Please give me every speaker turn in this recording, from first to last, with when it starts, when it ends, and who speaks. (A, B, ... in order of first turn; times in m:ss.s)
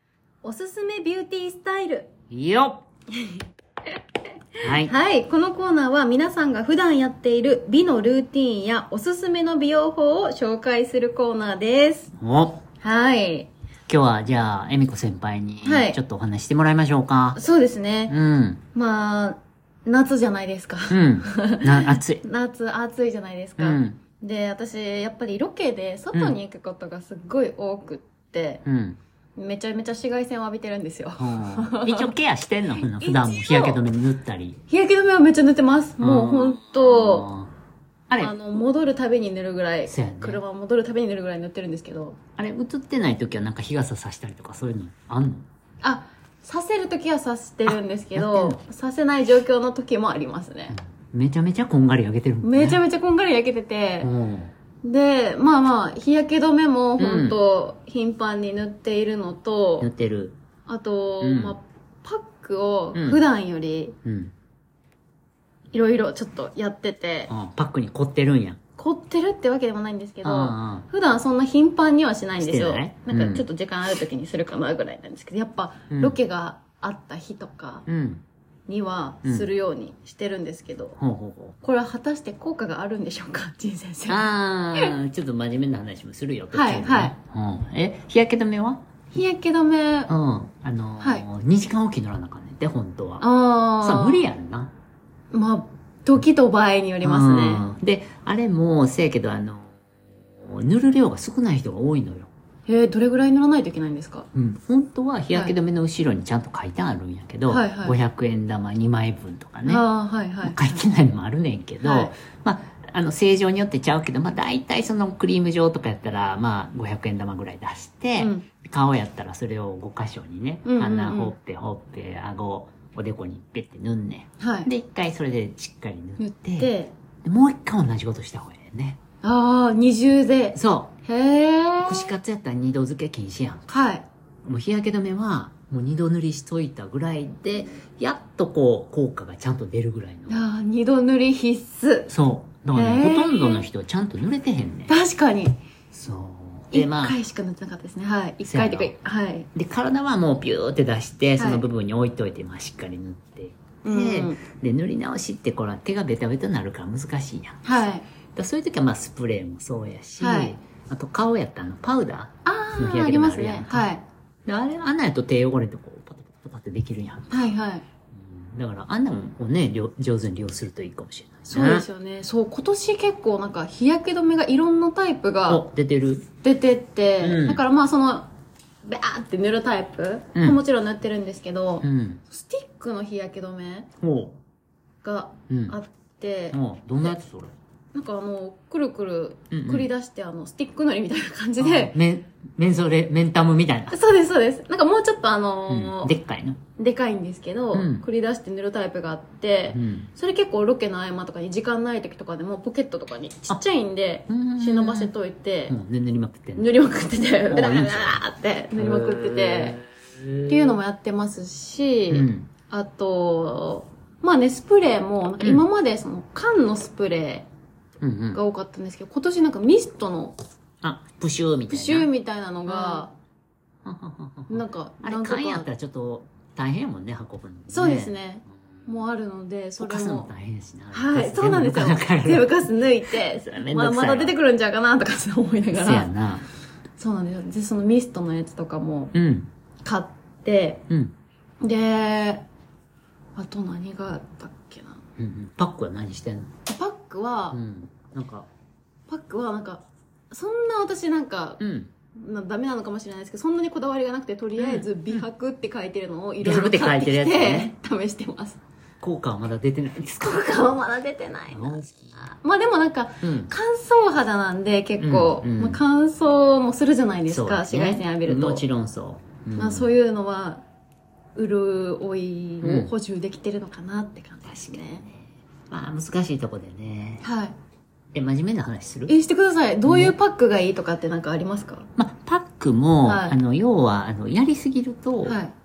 0:00.4-0:02.1 A
0:02.3-0:02.8 B
0:03.1-0:03.4 A
0:04.6-0:04.9 B
0:04.8-0:12.1 A
0:12.2-0:12.6 B
0:12.8-0:13.5 A
0:13.9-0:17.4 B
0:15.6-0:16.0 A
0:17.3-0:18.1 A
0:18.1-0:18.6 B
0:18.7-0:28.6 A
0:20.9-0:22.2 B
0:23.6-0:24.0 B
0:28.6-0:29.0 B
0:29.4-0:32.1 A
0:31.2-0:34.6 B
0:32.8-0:33.8 A
0:34.7-0:37.3 A
0:36.0-0:37.5 B
0:38.1-0:38.3 B
0:38.2-0:42.2 A
0:39.9-0:40.4 B
0:42.4-0:45.5 B
0:45.8-0:50.8 A
0:47.7-0:48.6 B
0:50.7-0:52.8 B
0:52.4-0:54.1 A
0:54.0-0:54.5 B
0:54.8-0:59.9 A
0:57.0-0:57.4 B
0:59.8-1:00.4 B
1:00.7-1:04.0 A
1:01.2-1:01.6 B
1:02.9-1:03.2 B
1:04.0-1:04.3 B
1:05.7-1:07.3 A
1:07.3-1:08.6 B
1:08.8-1:17.8 A
1:10.2-1:10.8 B
1:12.4-1:13.4 B
1:15.9-1:16.2 B
1:17.8-1:18.2 B
1:18.7-1:21.0 A
1:21.0-1:21.6 B
1:21.6-1:24.9 A
1:24.1-1:28.8 B
1:26.5-1:27.1 A
1:29.1-1:30.1 A
1:30.1-1:33.3 B
1:31.0-1:31.2 A
1:33.2-1:34.3 A
1:33.8-1:34.7 B
1:35.3-1:37.6 A
1:37.0-1:42.3 B
1:42.7-1:44.3 A
1:44.3-1:49.8 B
1:47.5-1:48.0 A
1:49.6-1:50.8 A
1:50.4-2:06.7 B
1:51.8-1:52.1 A
1:58.2-1:58.4 A
2:00.6-2:01.3 A
2:04.4-2:04.7 A
2:06.2-2:06.9 A
2:07.2-2:09.0 B
2:09.2-2:12.1 A
2:10.6-2:10.9 B
2:11.8-2:13.6 B
2:13.7-2:14.0 A
2:14.4-2:20.4 B
2:20.3-2:22.1 A
2:22.1-2:25.0 B
2:22.7-2:23.7 A
2:24.9-2:25.6 A
2:25.9-2:27.2 B
2:26.7-2:29.5 A
2:28.4-2:28.9 B
2:29.5-2:37.7 B
2:31.4-2:31.6 A
2:33.8-2:34.4 A
2:37.6-2:38.0 A
2:38.4-2:43.9 B
2:40.2-2:40.6 A
2:42.4-2:44.0 A
2:44.5-2:47.3 B
2:47.3-2:47.8 A
2:48.1-2:51.9 B
2:51.5-2:55.6 A
2:55.5-2:56.2 B
2:56.4-2:58.3 A
2:57.2-2:57.6 B
2:58.8-3:03.9 A
3:01.8-3:02.2 B
3:04.0-3:04.4 B
3:05.0-3:07.1 A
3:05.5-3:05.8 B
3:06.5-3:07.5 B
3:07.9-3:12.0 A
3:09.5-3:09.9 B
3:11.6-3:14.0 B
3:13.9-3:16.1 A
3:15.7-3:16.6 B
3:16.8-3:25.8 A
3:17.7-3:18.0 B
3:19.7-3:20.1 B
3:24.3-3:25.1 B
3:25.7-3:26.7 B
3:26.6-3:29.8 A
3:27.5-3:28.2 B
3:28.8-3:30.8 B
3:30.5-3:37.5 A
3:32.1-3:32.5 B
3:38.0-3:38.4 B
3:38.3-3:40.4 A
3:40.8-3:42.1 B
3:41.7-3:43.1 A
3:42.7-3:43.1 B
3:43.8-3:48.2 B
3:44.5-3:45.7 A
3:47.7-3:50.3 A
3:49.8-3:54.3 B
3:50.9-3:56.1 A
3:55.7-3:56.5 B
3:57.0-3:59.1 A
3:59.1-3:59.5 B
3:59.8-4:00.8 A
4:00.9-4:01.1 B
4:01.6-4:02.4 A
4:03.4-4:05.0 A
4:05.2-4:06.5 B
4:06.7-4:07.6 A
4:07.5-4:08.5 B
4:09.1-4:11.6 A
4:11.6-4:11.9 B
4:12.2-4:18.6 A
4:14.6-4:15.2 B
4:16.4-4:17.7 B
4:19.0-4:20.6 B
4:20.2-4:28.6 A
4:21.5-4:22.3 B
4:23.2-4:23.5 B
4:25.0-4:25.8 B
4:27.3-4:29.9 B
4:29.6-4:30.6 A
4:31.4-4:35.0 A
4:32.6-4:32.9 B
4:34.4-4:37.2 B
4:37.2-4:37.6 A
4:38.1-4:39.1 B
4:39.1-4:41.9 A
4:39.8-4:40.2 B
4:42.0-4:45.4 B
4:43.0-4:43.4 A
4:45.2-4:45.5 A